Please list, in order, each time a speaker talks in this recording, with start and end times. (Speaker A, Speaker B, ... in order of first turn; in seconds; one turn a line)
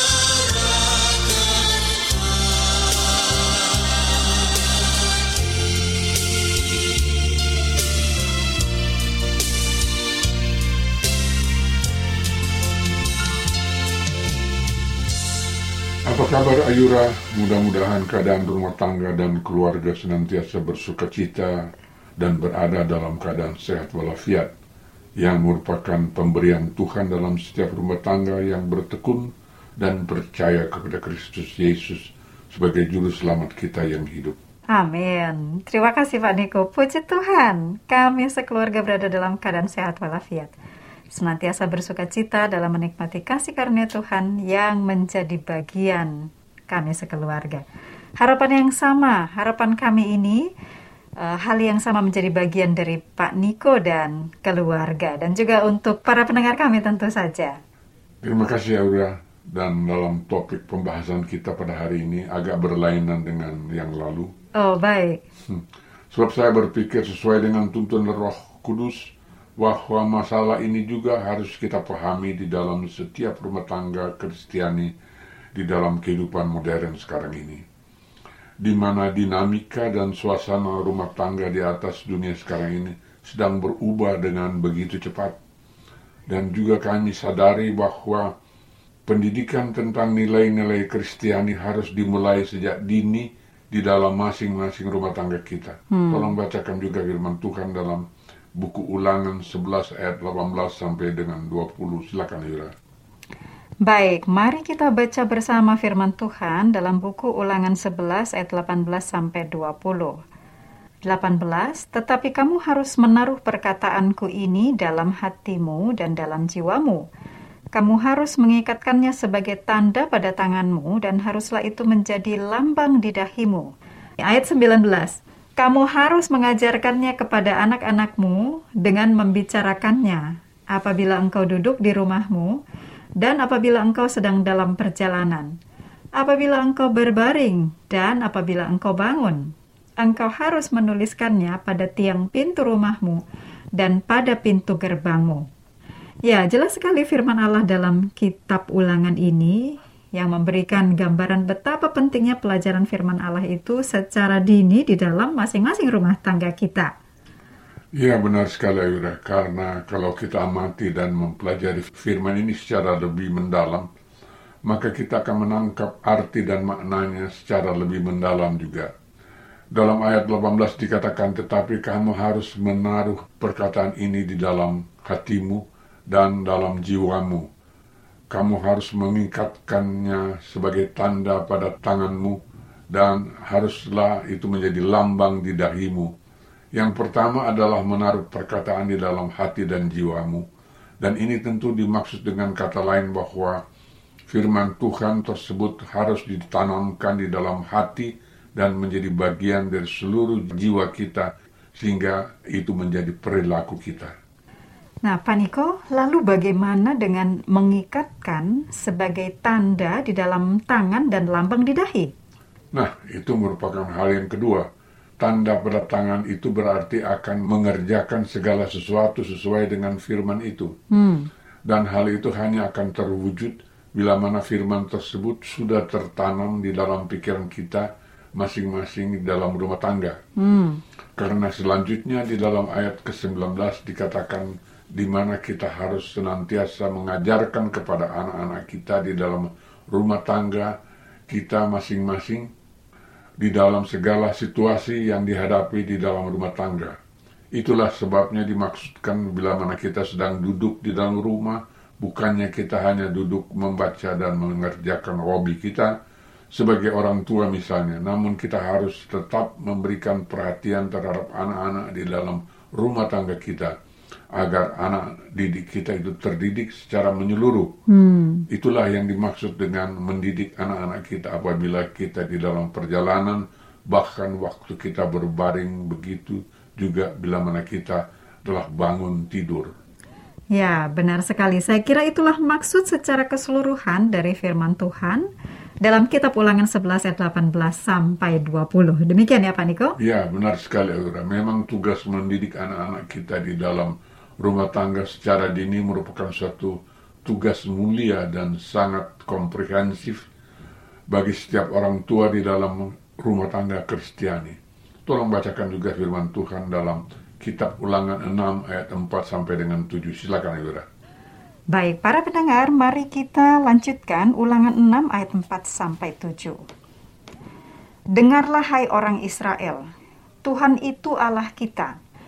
Speaker A: 16.1-24.5
Speaker A: 25.2-34.4
Speaker B: 34.7-40.5
Speaker B: 41.1-47.6
Speaker B: 48.2-50.5
Speaker B: 51.2-57.6
Speaker A: 58.2-64.3
Speaker B: 64.5-65.2
Speaker A: 65.5-74.9
Speaker A: 75.5-77.6
Speaker A: 78.6-85.3
Speaker A: 86.3-88.3
Speaker A: 89.1-102.7
Speaker B: 95.9-96.3
Speaker B: 103.8-110.2
Speaker B: 111.0-117.0
Speaker B: 117.7-123.7
Speaker B: 124.2-132.6
Speaker B: 133.2-135.6
Speaker B: 136.2-143.2
Speaker B: 143.8-145.5
Speaker B: 146.2-156.9
Speaker A: 157.9-163.9
Speaker A: 164.7-168.9
Speaker A: 169.7-177.5
Speaker A: 178.3-182.4
Speaker A: 182.9-186.1
Speaker A: 186.7-190.4
Speaker A: 191.0-193.6
Speaker A: 194.3-204.1
Speaker B: 205.0-212.1
Speaker A: 212.7-214.7
Speaker A: 215.2-220.7
Speaker B: 220.9-221.3
Speaker A: 221.7-230.2
Speaker B: 230.4-230.8
Speaker A: 231.2-240.7
Speaker A: 241.3-242.5
Speaker A: 243.4-246.9
Speaker A: 247.6-255.9
Speaker A: 256.5-263.7
Speaker A: 264.3-267.7
Speaker B: 267.9-268.4
Speaker A: 268.5-279.7
Speaker B: 280.5-285.3
Speaker B: 285.8-289.9
Speaker A: 290.0-300.3
Speaker A: 301.1-310.9
Speaker B: 311.7-316.6
Speaker B: 318.1-319.9
Speaker B: 320.4-322.0